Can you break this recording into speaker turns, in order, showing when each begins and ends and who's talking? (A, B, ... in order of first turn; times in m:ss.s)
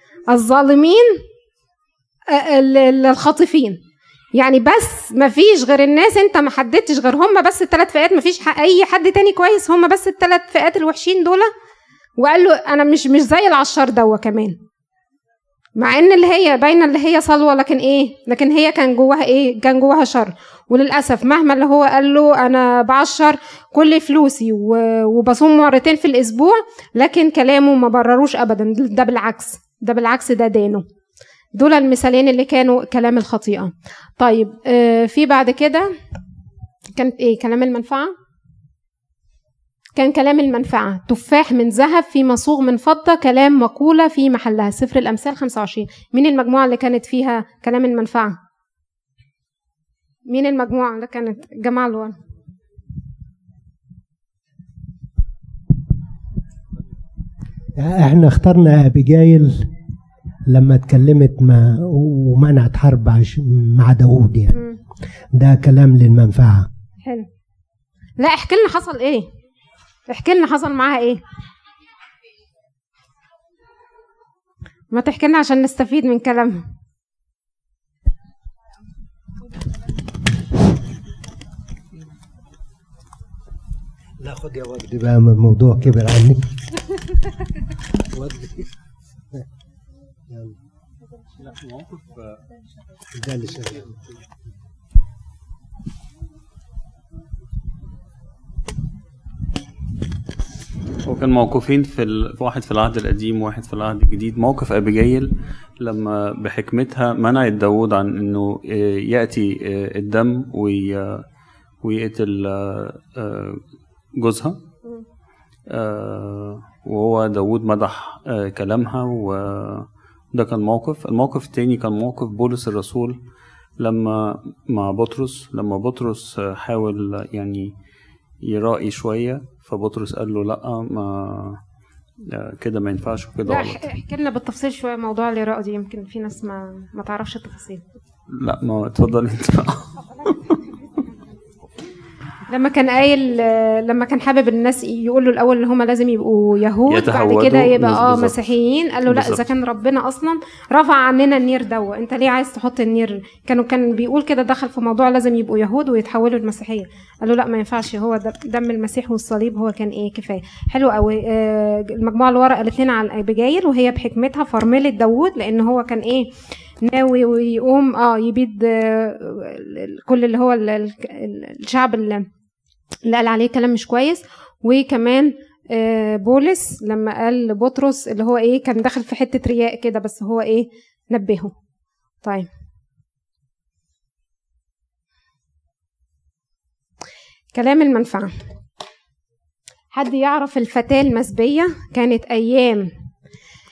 0:00.3-0:01.2 A
0:02.3-0:03.8 A
0:04.4-0:11.5 A
0:12.2-0:14.6 A
0:15.8-0:30.8 A
0:31.6-0:35.9 A
0:37.0-0:38.1 A
0:40.0-0:48.4 A
0:50.3-0:52.2 A
0:57.8-0:59.7 B
1:00.5-1:04.6 B
1:05.4-1:06.7 B
1:08.2-1:09.3 A
1:10.1-1:11.2 A
1:14.9-1:16.6 A
1:24.2-1:26.5 B
1:28.1-1:28.7 B
1:30.3-1:30.6 B
1:31.4-1:32.2 C
1:33.1-1:34.0 B
1:41.0-1:51.2 C
1:51.8-1:53.6 C
1:54.2-1:54.6 C
1:55.7-2:03.2 C
2:03.8-2:07.7 C
2:08.4-2:11.6 C
2:12.3-2:13.8 C
2:13.5-2:17.8 A
2:18.3-2:20.6 C
2:22.5-2:46.3 A
2:26.9-2:28.4 C
2:29.1-2:29.4 C
2:46.8-2:52.3 A
2:53.1-3:01.5 A
3:02.2-3:02.5 A
3:07.5-3:08.3 A
3:09.9-3:12.9 A